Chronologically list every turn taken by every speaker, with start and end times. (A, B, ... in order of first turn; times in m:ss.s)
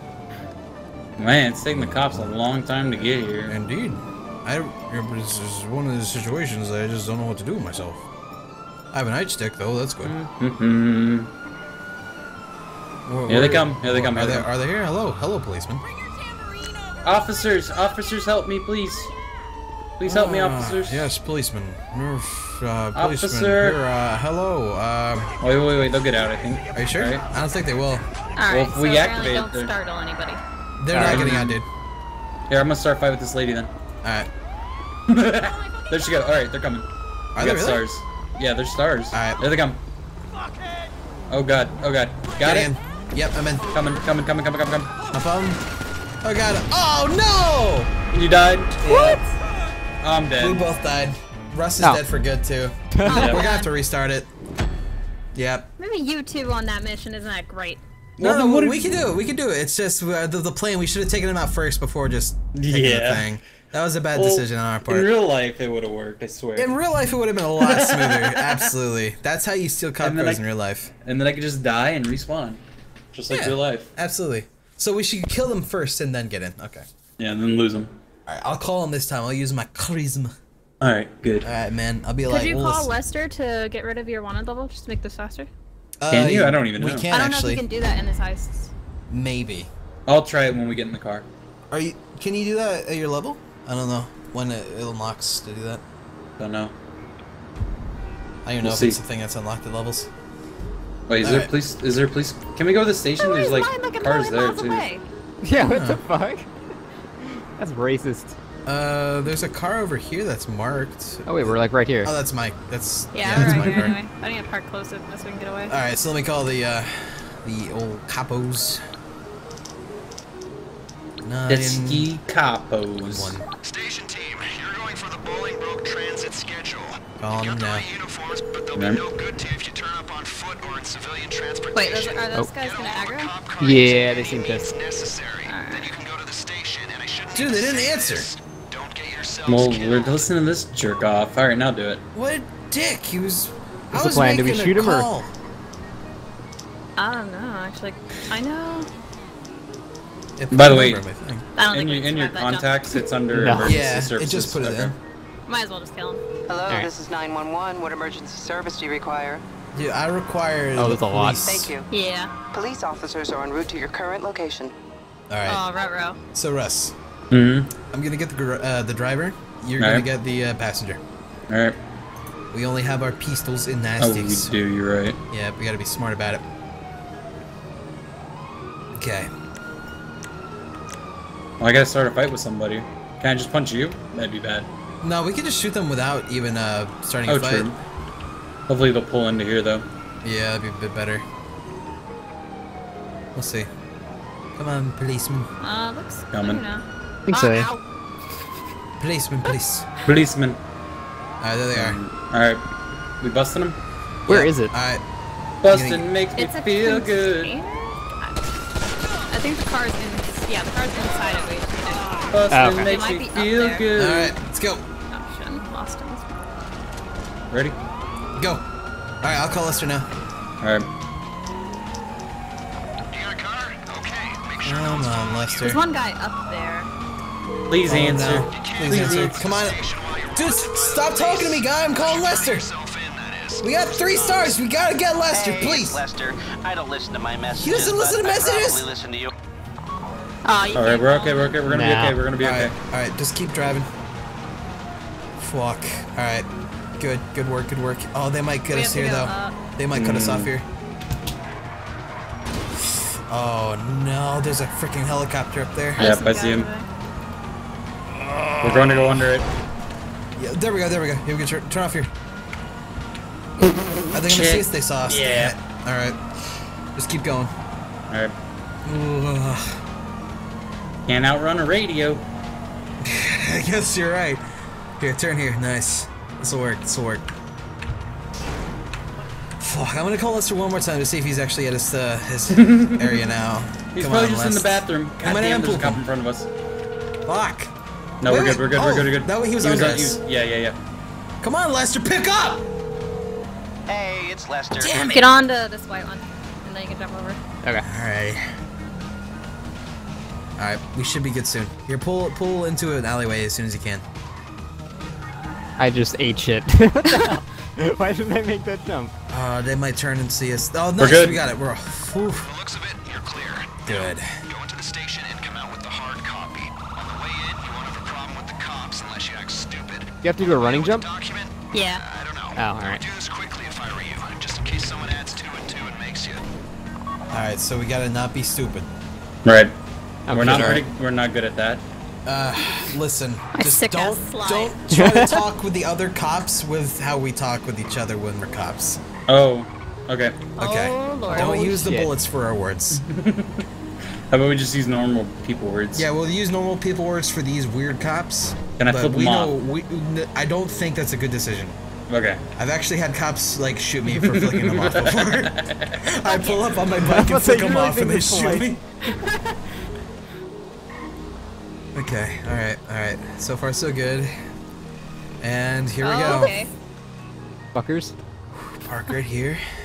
0:01.2-0:03.5 A
0:01.7-0:02.3 B
0:03.5-0:08.1 B
0:08.9-0:10.1 B
0:10.0-0:11.3 A
0:13.1-0:15.8 B
0:13.3-0:14.5 A
0:17.0-0:19.1 A
0:20.0-0:21.1 A
0:20.1-0:25.3 B
0:23.0-0:23.8 A
0:25.4-0:27.2 A
0:26.8-0:28.0 B
0:28.4-0:30.4 C
0:28.5-0:29.7 A
0:30.8-0:31.7 B
0:30.9-0:31.4 D
0:31.0-0:31.6 A
0:32.5-0:33.7 A
0:34.0-0:34.3 B
0:35.1-0:36.9 A
0:37.3-0:37.8 B
0:37.4-0:39.8 A
0:39.1-0:39.4 B
0:41.3-0:42.7 A
0:42.4-0:43.7 B
0:43.7-0:44.9 A
0:45.1-0:45.6 B
0:46.2-0:47.9 B
0:48.1-0:49.1 A
0:48.8-0:49.2 B
0:50.0-0:50.6 A
0:50.4-0:54.3 B
0:52.9-0:53.4 D
0:53.0-0:53.7 C
0:53.1-0:53.4 A
0:55.3-0:55.7 B
0:55.8-0:57.8 C
0:58.2-0:59.0 A
0:58.2-1:05.1 B
1:02.6-1:03.3 A
1:04.1-1:06.8 A
1:06.6-1:10.9 B
1:07.6-1:08.7 A
1:10.0-1:10.4 A
1:11.0-1:12.6 A
1:13.1-1:13.9 A
1:13.3-1:16.9 B
1:17.2-1:17.9 A
1:18.3-1:20.3 B
1:20.8-1:21.5 A
1:21.4-1:22.9 B
1:22.3-1:25.5 C
1:26.0-1:27.6 B
1:26.1-1:27.1 A
1:27.1-1:28.7 C
1:29.1-1:29.7 B
1:30.1-1:31.3 A
1:31.7-1:35.8 B
1:36.4-1:36.7 A
1:38.4-1:40.1 B
1:38.6-1:39.0 A
1:41.1-1:44.9 A
1:41.2-1:41.5 B
1:43.2-1:45.0 C
1:45.4-1:46.5 D
1:45.6-1:46.0 B
1:47.6-1:48.4 D
1:48.7-1:54.0 B
1:51.3-1:52.1 D
1:53.1-1:55.7 C
1:55.7-1:58.8 B
2:01.2-2:02.1 B
2:01.5-2:03.4 A
2:03.0-2:03.4 B
2:03.6-2:20.2 E
2:07.2-2:07.8 B
2:08.8-2:09.0 A
2:11.7-2:13.3 C
2:13.6-2:14.7 D
2:15.4-2:15.9 C
2:17.4-2:18.3 B
2:19.5-2:22.0 A
2:22.1-2:25.3 B
2:23.9-2:25.1 D
2:27.0-2:28.9 C
2:30.4-2:31.4 B
2:30.5-2:31.0 A
2:31.6-2:32.7 C
2:31.7-2:35.0 A
2:33.3-2:33.8 D
2:33.6-2:35.0 B
2:35.5-2:36.2 C
2:36.5-2:39.4 F
2:39.7-2:41.7 B
2:40.8-2:41.4 D
2:41.4-2:41.9 F
2:41.9-2:42.3 C
2:42.5-2:44.7 F
2:45.3-2:45.6 B
2:45.5-2:46.2 C
2:46.3-2:47.0 B
2:47.3-2:47.7 A
2:47.9-2:51.0 B
2:49.8-2:50.0 A
2:51.5-2:51.8 A
2:52.5-2:54.5 B
2:54.0-2:55.2 A
2:55.3-2:56.4 B
2:58.9-2:59.3 B
3:01.6-3:04.7 A
3:05.0-3:07.7 B
3:07.3-3:07.8 A
3:08.7-3:09.8 A
3:10.2-3:11.2 B
3:13.3-3:13.7 B
3:14.6-3:15.5 B
3:15.6-3:17.8 C
3:16.3-3:16.6 A
3:17.3-3:17.7 D
3:19.0-3:19.9 B
3:20.0-3:20.6 A
3:21.4-3:22.0 B
3:21.7-3:22.6 A
3:23.2-3:23.8 A
3:24.3-3:24.8 D
3:24.3-3:25.0 B
3:25.6-3:27.6 A
3:25.7-3:26.1 B
3:26.4-3:28.4 C
3:29.3-3:33.8 C
3:32.3-3:34.4 A
3:32.5-3:32.8 D
3:34.0-3:34.8 B
3:35.1-3:36.4 C
3:37.5-3:37.8 A
3:38.4-3:38.6 B
3:39.2-3:40.1 B
3:40.6-3:40.9 A
3:43.1-3:45.8 E
3:44.6-3:45.8 B
3:45.6-3:46.9 C
3:47.7-3:49.5 A
3:47.9-3:49.8 B
3:48.5-3:54.6 E
3:50.4-3:52.7 B
3:53.6-3:56.0 B
3:55.3-3:59.3 G
3:57.5-3:58.9 B
4:00.5-4:01.6 C
4:00.8-4:02.7 A
4:01.7-4:02.2 D
4:02.4-4:03.9 B
4:05.4-4:06.5 B
4:07.0-4:10.7 B
4:08.7-4:09.6 C
4:09.9-4:10.5 A
4:12.8-4:16.1 B
4:16.0-4:16.7 A
4:16.0-4:16.9 C
4:18.2-4:19.0 B
4:18.6-4:19.5 A
4:20.4-4:22.1 B
4:23.6-4:25.6 A
4:24.1-4:26.2 B
4:27.0-4:27.5 B
4:28.8-4:29.8 B
4:31.1-4:32.2 A
4:33.0-4:34.4 B
4:35.0-4:37.3 B
4:39.6-4:46.0 B
4:42.5-4:43.2 A
4:43.9-4:46.5 A
4:47.3-4:47.7 B
4:48.2-4:50.8 A
4:48.3-4:50.2 B
4:51.4-4:52.7 B
4:53.9-4:55.0 G
4:54.8-4:55.3 B
4:55.1-4:57.4 C
4:57.8-4:58.5 B
5:00.6-5:04.0 B
5:05.8-5:09.1 D
5:09.3-5:12.5 B
5:11.0-5:11.4 A
5:12.4-5:26.5 E
5:13.9-5:14.4 B
5:20.2-5:21.1 D
5:21.7-5:22.0 C
5:22.6-5:23.0 D
5:27.3-5:28.9 B
5:29.4-5:29.7 A
5:30.3-5:30.8 D
5:30.3-5:31.8 A
5:30.4-5:30.8 B
5:32.3-5:39.0 B
5:33.5-5:34.8 C
5:34.9-5:35.4 D
5:39.3-5:40.4 A
5:40.6-5:41.8 C
5:40.6-5:43.0 B
5:41.3-5:42.1 D
5:43.0-5:43.6 A
5:44.3-5:46.1 A
5:45.9-5:51.8 B
5:48.8-5:49.5 A
5:52.1-5:52.4 A
5:52.6-5:58.8 B
5:54.1-5:56.0 A
5:56.9-5:58.8 D
5:59.1-5:59.6 C
6:02.0-6:04.3 B
6:05.4-6:06.5 B
6:06.0-6:06.7 C
6:06.2-6:06.5 D
6:07.7-6:08.1 D
6:08.5-6:09.6 B